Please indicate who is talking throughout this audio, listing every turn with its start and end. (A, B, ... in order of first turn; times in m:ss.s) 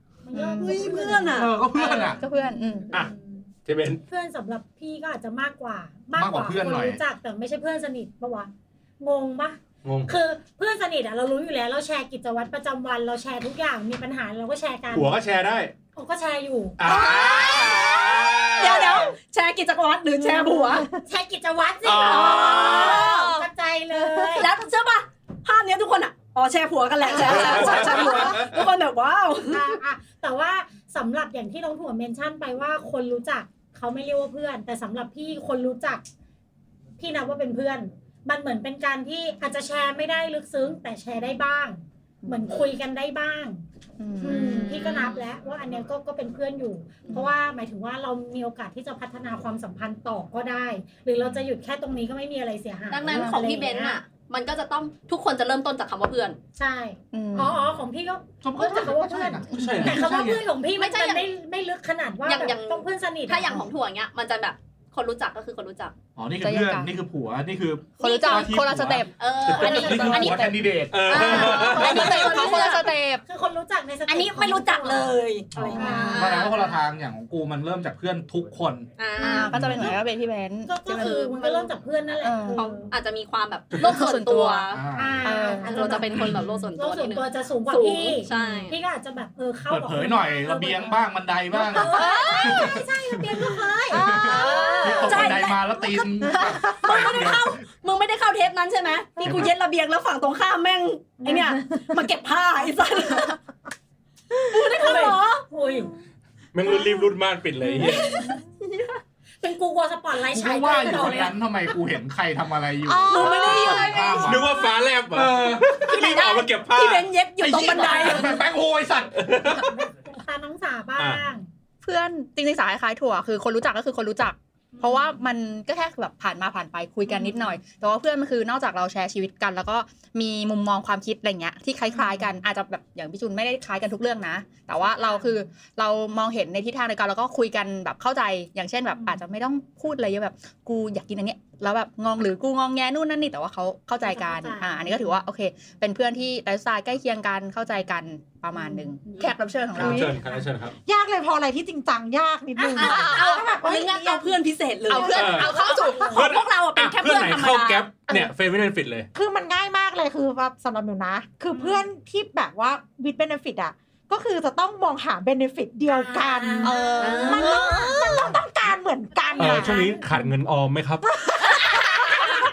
0:00.2-0:01.4 A
0:00.3-0:01.1 B
0:00.6-0:01.5 C
0:01.3-0:02.2 D
0:01.7-0:03.0 B
0:02.9-0:03.4 A
0:03.6-0:04.0 E
0:04.1-0:08.5 A
0:06.1-0:07.0 D
0:09.0-0:15.1 A
0:09.8-0:10.1 E
0:14.9-0:15.7 E
0:15.9-0:16.8 A
0:16.8-0:19.1 E
0:16.9-0:18.0 C
0:18.6-0:20.9 C
0:18.6-0:19.1 B
0:20.2-0:20.9 F
0:20.9-0:24.5 A
0:21.8-0:22.8 E
0:21.9-0:23.4 C
0:22.8-0:23.5 B
0:24.3-0:29.8 C
0:27.2-0:28.3 E
0:27.3-0:27.8 B
0:27.4-0:27.9 A
0:29.4-0:36.0 A
0:37.0-0:43.6 A
0:42.2-0:42.6 B
0:44.0-0:45.1 B
0:44.2-0:54.0 A
0:44.6-0:45.2 C
0:52.9-0:56.4 C
0:53.1-0:53.5 B
0:56.6-1:03.5 A
0:57.1-0:57.6 B
0:58.4-1:00.4 D
0:59.5-1:00.0 B
0:59.6-1:00.0 E
1:00.8-1:01.2 C
1:02.2-1:05.9 C
1:06.2-1:12.2 D
1:06.4-1:06.9 B
1:08.0-1:13.2 B
1:08.0-1:08.6 C
1:09.2-1:10.5 C
1:09.6-1:10.4 A
1:10.9-1:12.2 E
1:11.1-1:12.9 C
1:11.6-1:16.5 A
1:14.1-1:16.6 C
1:15.5-1:18.9 D
1:15.8-1:16.2 B
1:19.0-1:20.0 C
1:19.2-1:21.5 B
1:19.5-1:20.0 D
1:20.7-1:22.9 A
1:20.9-1:21.7 C
1:22.2-1:22.7 B
1:22.5-1:24.8 C
1:23.8-1:26.1 B
1:24.7-1:25.4 D
1:25.0-1:31.0 A
1:25.4-1:28.8 C
1:29.7-1:37.6 D
1:31.6-1:34.2 A
1:31.8-1:32.7 B
1:33.9-1:35.0 F
1:34.2-1:35.4 B
1:35.0-1:35.6 C
1:36.6-1:43.4 C
1:39.2-1:39.5 D
1:44.5-1:45.4 C
1:44.7-1:45.9 A
1:46.5-1:48.3 E
1:47.9-1:48.9 C
1:49.4-1:51.4 A
1:50.2-1:54.5 D
1:52.8-1:54.3 F
1:53.1-1:54.6 C
1:53.4-1:53.8 B
1:54.2-1:57.1 E
1:55.1-1:55.9 D
1:55.9-1:58.4 C
1:56.0-1:56.4 B
1:57.0-1:58.3 B
1:57.4-1:59.6 D
1:59.2-1:59.7 E
1:59.4-2:01.5 A
2:01.0-2:01.2 E
2:01.8-2:30.2 B
2:04.7-2:05.1 A
2:07.1-2:07.4 A
2:14.9-2:15.3 A
2:24.1-2:24.9 A
2:29.0-2:29.3 A
2:29.7-2:30.7 E
2:30.8-2:34.4 F
2:32.7-2:37.9 C
2:32.8-2:33.5 B
2:34.9-2:36.2 B
2:34.9-2:35.9 F
2:35.1-2:35.6 E
2:36.1-2:39.1 E
2:39.1-2:49.8 F
2:41.5-2:41.8 A
2:45.9-2:47.3 A
2:46.6-2:48.2 B
2:47.0-2:48.0 C
2:49.3-2:49.9 A
2:49.4-2:51.0 E
2:51.4-2:52.3 F